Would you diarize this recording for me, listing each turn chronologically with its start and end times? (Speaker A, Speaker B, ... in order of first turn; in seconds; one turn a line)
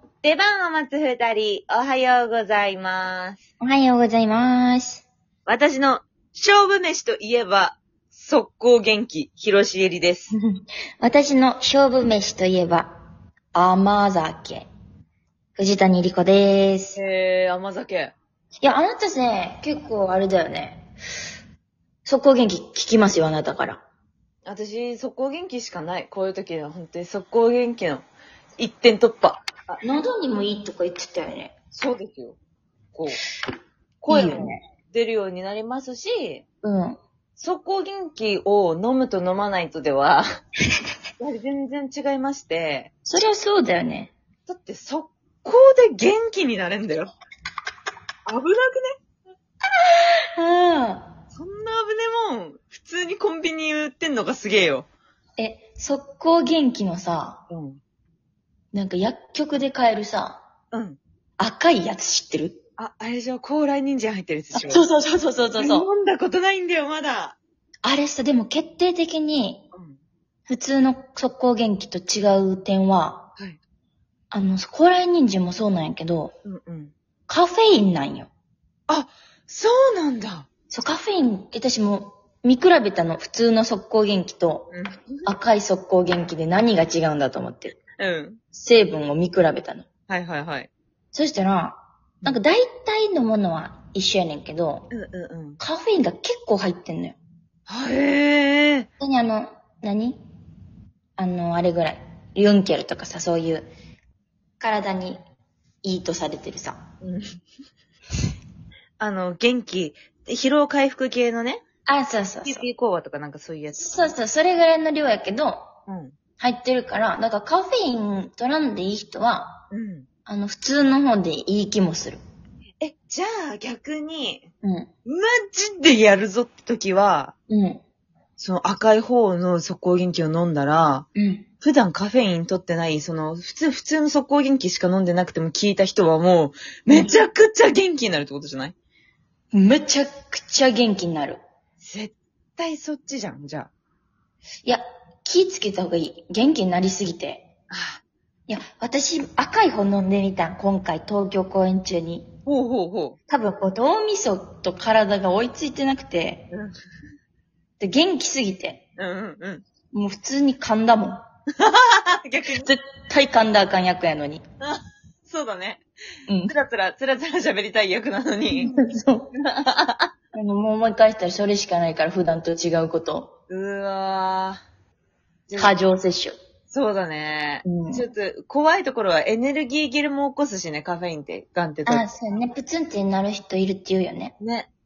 Speaker A: 0.2-3.4
Speaker B: 3.6-5.0
Speaker A: 5.5-10.3
Speaker B: 10.3-13.0
Speaker B: 13.5-14.7
Speaker B: 15.6-17.0
Speaker A: 16.9-18.1
Speaker B: 18.6-20.9
Speaker B: 22.0-23.8
Speaker A: 24.4-28.1
Speaker A: 28.6-29.8
Speaker B: 29.8-31.5
Speaker A: 31.7-32.4
Speaker A: 32.9-33.2
Speaker A: 34.0-36.4
Speaker B: 34.1-34.6
Speaker B: 36.6-37.0
Speaker A: 37.4-40.2
Speaker A: 41.2-42.9
Speaker B: 43.0-44.1
Speaker A: 44.5-47.1
Speaker A: 48.2-49.0
Speaker B: 50.0-51.1
Speaker A: 51.3-54.9
Speaker B: 55.4-57.4
Speaker A: 57.5-57.8
Speaker B: 58.7-60.4
Speaker A: 60.7-61.0
Speaker B: 61.4-62.6
Speaker A: 62.8-64.8
Speaker B: 64.5-65.9
Speaker A: 65.6-67.4
Speaker B: 67.8-69.7
Speaker A: 69.7-70.0
Speaker B: 70.5-73.3
Speaker B: 74.3-76.3
Speaker A: 76.4-76.9
Speaker B: 77.3-78.3
Speaker A: 78.9-80.5
Speaker B: 80.7-84.7
Speaker A: 84.7-85.3
Speaker B: 85.2-87.8
Speaker A: 88.0-88.4
Speaker B: 88.5-89.9
Speaker A: 90.1-90.7
Speaker B: 91.1-94.9
Speaker A: 94.9-95.6
Speaker B: 95.6-97.2
Speaker A: 97.7-98.9
Speaker B: 99.0-100.2
Speaker B: 101.2-103.7
Speaker B: 104.6-105.2
Speaker B: 105.8-106.8
Speaker A: 107.0-107.3
Speaker A: 109.0-111.6
Speaker B: 111.8-112.7
Speaker A: 112.4-114.2
Speaker B: 113.7-115.7
Speaker A: 115.9-116.1
Speaker B: 116.4-119.6
Speaker A: 119.7-120.1
Speaker B: 120.2-122.2
Speaker A: 122.8-124.5
Speaker B: 124.6-124.9
Speaker A: 125.0-127.3
Speaker B: 127.5-127.8
Speaker A: 128.4-131.1
Speaker B: 131.1-131.4
Speaker A: 131.6-138.7
Speaker B: 136.9-137.1
Speaker B: 139.5-141.4
Speaker A: 141.8-143.7
Speaker B: 144.6-147.5
Speaker A: 147.7-148.0
Speaker B: 148.5-152.3
Speaker A: 152.4-153.2
Speaker B: 153.3-156.5
Speaker B: 157.8-158.8
Speaker A: 159.0-159.7
Speaker B: 159.9-161.2
Speaker A: 161.6-162.7
Speaker B: 162.6-164.4
Speaker A: 164.6-165.8
Speaker B: 166.3-166.5
Speaker A: 166.5-168.8
Speaker B: 168.6-169.3
Speaker A: 169.3-170.1
Speaker B: 170.3-173.3
Speaker A: 173.5-174.6
Speaker A: 175.5-175.8
Speaker B: 175.6-176.4
Speaker A: 176.7-182.1
Speaker B: 177.6-178.1
Speaker B: 181.8-184.3
Speaker A: 184.4-184.7